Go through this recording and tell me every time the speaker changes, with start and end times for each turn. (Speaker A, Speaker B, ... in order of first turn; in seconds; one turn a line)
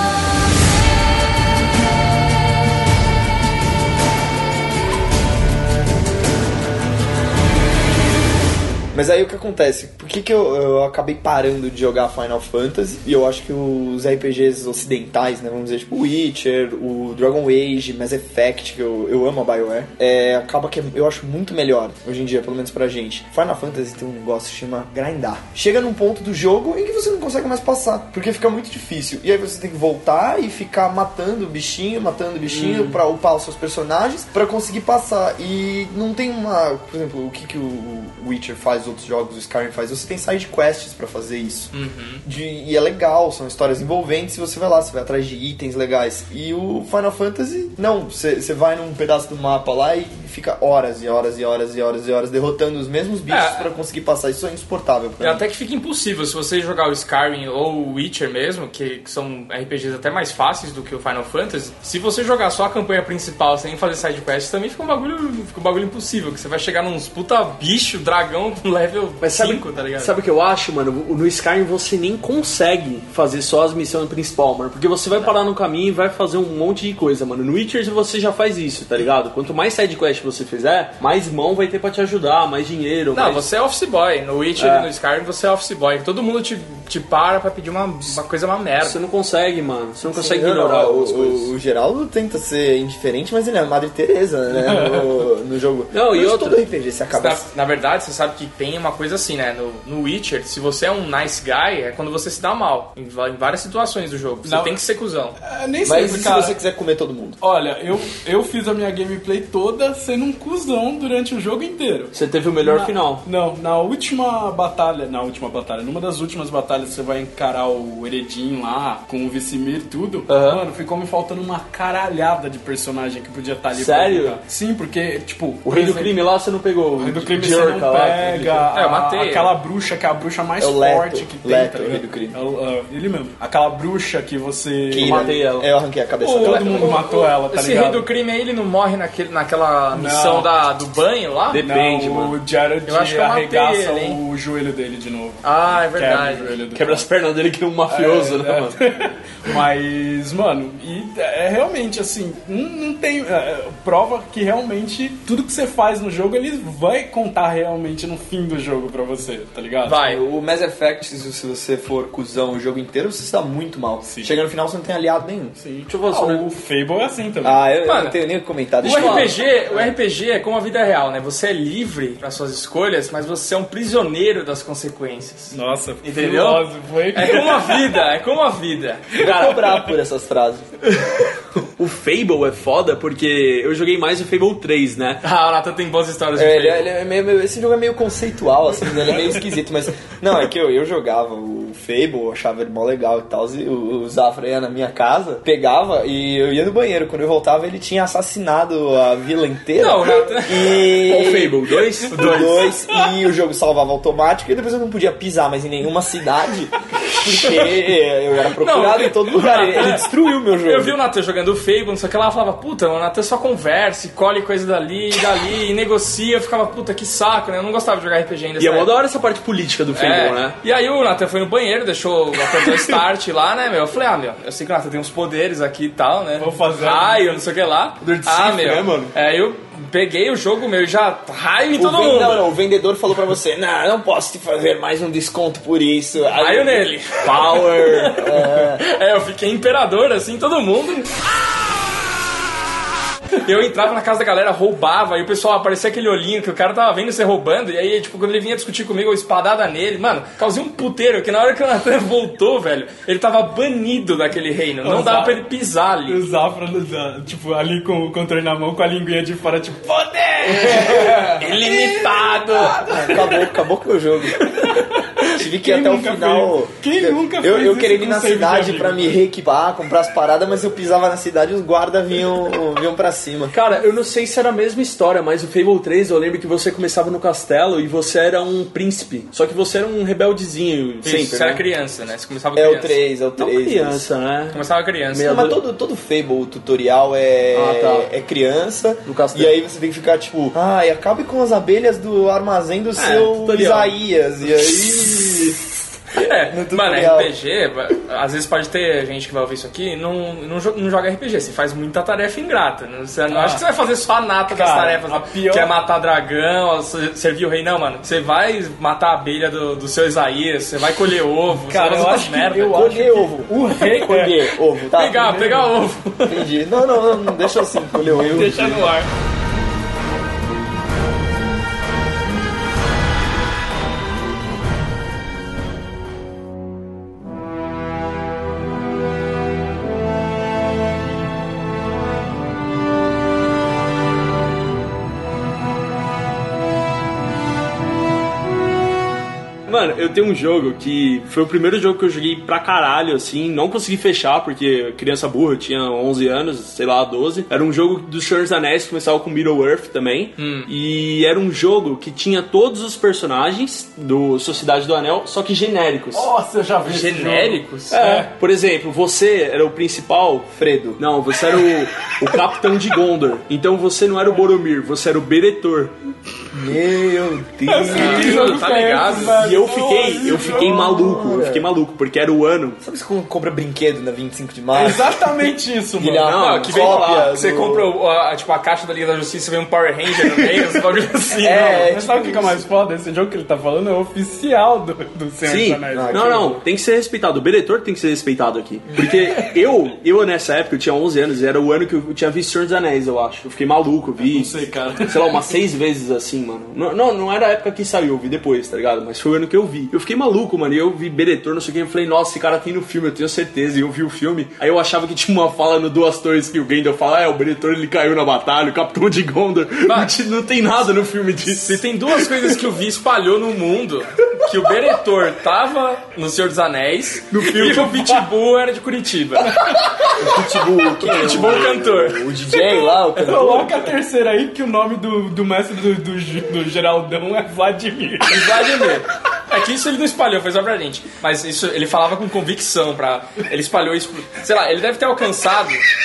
Speaker A: 8.9-41.7
Speaker B: 32.5-33.0
Speaker C: 41.7-42.2
Speaker A: 42.2-55.4
Speaker C: 53.3-53.7
Speaker C: 55.2-70.1
Speaker B: 69.2-83.5
Speaker C: 83.1-89.0
Speaker B: 84.6-84.9
Speaker B: 88.8-91.5
Speaker A: 90.1-97.5
Speaker D: 94.5-95.3
Speaker B: 95.9-96.6
Speaker C: 97.1-105.4
Speaker D: 104.5-104.8
Speaker D: 105.4-106.6
Speaker A: 105.8-107.4
Speaker D: 107.4-126.2
Speaker B: 112.1-113.2
Speaker B: 120.3-120.6
Speaker B: 123.7-124.4
Speaker B: 125.7-128.7
Speaker D: 127.0-135.3
Speaker C: 128.7-129.6
Speaker A: 130.6-132.4
Speaker A: 134.9-137.0
Speaker B: 135.0-135.7
Speaker C: 136.2-141.7
Speaker D: 136.4-138.1
Speaker D: 139.9-140.5
Speaker B: 141.5-142.4
Speaker D: 141.6-147.1
Speaker C: 142.8-144.2
Speaker C: 145.4-146.6
Speaker B: 146.8-148.8
Speaker D: 147.9-160.0
Speaker C: 159.8-160.2
Speaker A: 160.0-165.6
Speaker D: 164.0-164.4
Speaker D: 165.6-167.7
Speaker B: 165.9-166.4
Speaker A: 167.4-169.4
Speaker C: 167.8-168.2
Speaker B: 168.8-169.3
Speaker C: 168.8-179.2
Speaker D: 175.5-178.0
Speaker A: 179.2-180.7
Speaker B: 179.2-179.6
Speaker B: 181.8-185.2
Speaker C: 185.2-186.8
Speaker A: 186.3-211.0
Speaker C: 199.8-201.0
Speaker B: 201.1-202.7
Speaker C: 202.1-202.8
Speaker C: 208.6-218.9
Speaker B: 218.6-220.6
Speaker C: 219.9-232.5
Speaker B: 222.5-222.8
Speaker D: 226.4-227.4
Speaker B: 228.0-229.1
Speaker A: 231.8-236.9
Speaker C: 236.4-241.2
Speaker B: 237.2-238.2
Speaker A: 238.1-238.8
Speaker C: 243.4-256.2
Speaker D: 254.8-255.4
Speaker D: 256.1-263.5
Speaker A: 260.5-260.9
Speaker C: 260.7-262.9
Speaker A: 262.8-264.6
Speaker D: 264.5-269.2
Speaker A: 265.2-273.6
Speaker B: 273.5-281.6
Speaker C: 281.0-283.0
Speaker A: 282.6-284.1
Speaker B: 283.4-285.6
Speaker C: 284.5-285.4
Speaker A: 285.2-295.6
Speaker B: 287.5-288.1
Speaker B: 289.1-289.5
Speaker B: 293.0-293.9
Speaker B: 294.7-295.5
Speaker A: 296.1-297.4
Speaker C: 296.2-312.9
Speaker D: 303.3-303.6
Speaker D: 304.5-305.7
Speaker D: 311.6-314.5
Speaker A: 312.7-315.4
Speaker C: 314.9-316.5
Speaker D: 315.1-315.8
Speaker A: 316.3-318.9
Speaker D: 318.0-319.1
Speaker B: 339.7-356.3
Speaker C: 350.4-350.7
Speaker D: 356.1-358.3
Speaker C: 356.8-358.1
Speaker B: 357.9-365.9
Speaker A: 360.5-361.0
Speaker A: 366.5-368.6
Speaker D: 367.7-370.9
Speaker C: 367.9-369.4
Speaker B: 369.3-372.8
Speaker A: 370.4-371.7
Speaker A: 372.8-375.3
Speaker D: 374.7-376.4
Speaker A: 375.9-377.9
Speaker B: 376.2-377.3
Speaker C: 376.4-381.9
Speaker A: 381.4-382.6
Speaker D: 381.5-386.6
Speaker B: 385.4-412.6
Speaker A: 385.9-386.6
Speaker D: 394.2-395.4
Speaker C: 409.9-410.1
Speaker C: 411.5-419.7
Speaker B: 417.3-418.2
Speaker A: 420.2-423.9
Speaker C: 421.0-422.3
Speaker D: 423.2-428.6
Speaker C: 428.2-435.9